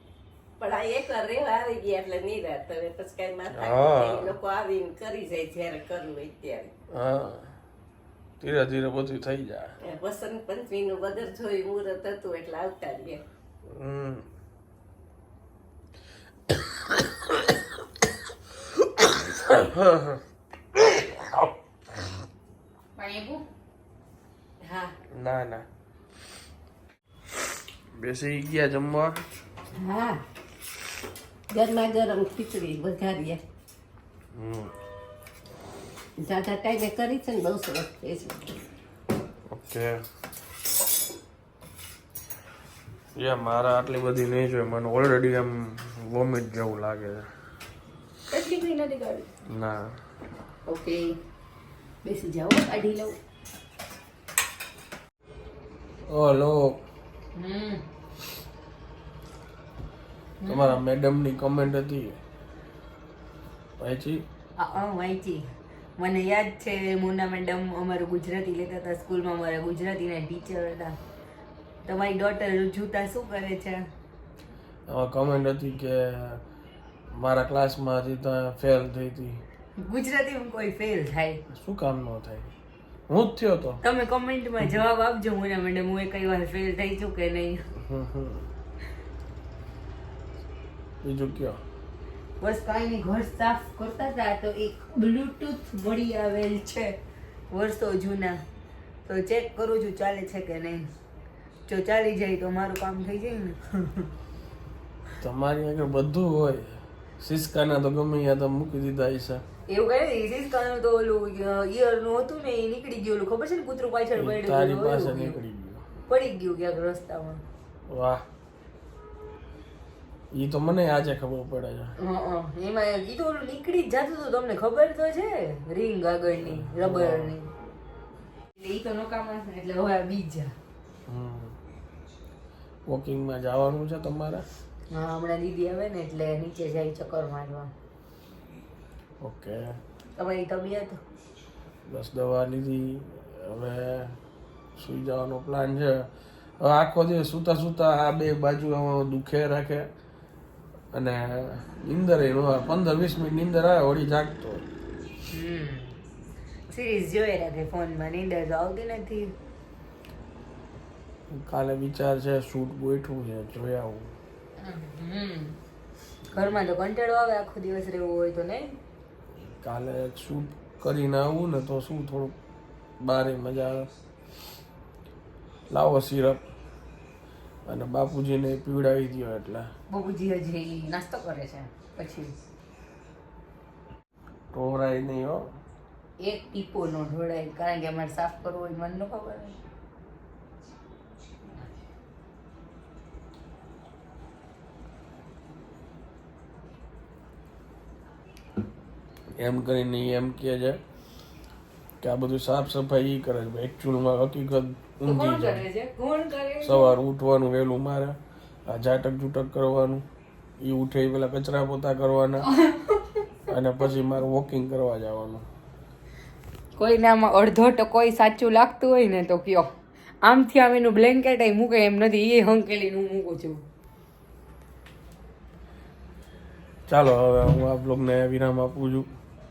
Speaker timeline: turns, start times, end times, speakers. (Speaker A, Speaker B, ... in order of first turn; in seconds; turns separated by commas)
Speaker A: 0.6-6.7, Speaker B: 3.5-4.3, Speaker B: 6.9-7.5, Speaker B: 8.4-9.7, Speaker A: 9.8-13.2, Speaker B: 13.7-14.2, Speaker B: 19.3-20.2, Speaker B: 20.8-21.3, Speaker C: 23.0-23.4, Speaker A: 24.6-24.9, Speaker B: 25.1-25.6, Speaker B: 27.9-29.2, Speaker A: 29.8-30.2, Speaker A: 31.5-33.4, Speaker B: 34.3-34.7, Speaker A: 36.2-38.5, Speaker B: 39.5-39.9, Speaker B: 43.1-47.3, Speaker C: 48.3-49.3, Speaker B: 49.5-50.0, Speaker C: 50.6-51.1, Speaker C: 52.0-53.2, Speaker B: 56.1-56.8, Speaker C: 57.3-57.8, Speaker C: 60.4-60.8, Speaker B: 60.5-62.2, Speaker B: 63.8-64.2, Speaker C: 64.6-65.4, Speaker C: 66.0-71.0, Speaker C: 71.8-73.8, Speaker B: 74.9-76.4, Speaker B: 77.2-79.4, Speaker C: 79.8-81.4, Speaker B: 81.5-82.5, Speaker B: 83.1-83.8, Speaker C: 83.8-87.6, Speaker B: 87.8-88.5, Speaker B: 91.0-91.6, Speaker C: 92.4-96.9, Speaker C: 97.5-98.4, Speaker C: 99.0-100.9, Speaker C: 101.7-104.1, Speaker B: 105.2-109.4, Speaker C: 109.7-115.4, Speaker B: 114.2-115.8, Speaker C: 116.1-117.4, Speaker B: 117.9-118.2, Speaker B: 120.3-121.9, Speaker C: 122.0-127.5, Speaker B: 126.4-127.3, Speaker C: 128.6-130.5, Speaker B: 131.1-131.6, Speaker B: 132.9-134.4, Speaker C: 134.9-137.7, Speaker B: 139.2-139.7, Speaker C: 140.2-141.0, Speaker B: 141.9-144.2, Speaker B: 144.8-146.1, Speaker B: 146.6-149.9, Speaker B: 150.9-154.6, Speaker C: 155.3-156.0, Speaker C: 156.7-159.3, Speaker B: 161.3-164.1, Speaker C: 164.6-165.6, Speaker C: 166.3-168.8, Speaker B: 169.4-172.3, Speaker B: 173.0-173.9, Speaker B: 175.7-176.4, Speaker B: 177.7-179.7, Speaker C: 179.9-182.3, Speaker B: 184.5-185.5, Speaker C: 186.2-189.6, Speaker B: 199.4-200.8, Speaker B: 202.0-205.7, Speaker C: 205.0-206.9, Speaker B: 206.6-210.0, Speaker B: 210.6-212.5, Speaker C: 212.5-213.2, Speaker B: 213.5-215.4, Speaker C: 216.8-223.6, Speaker B: 226.9-229.1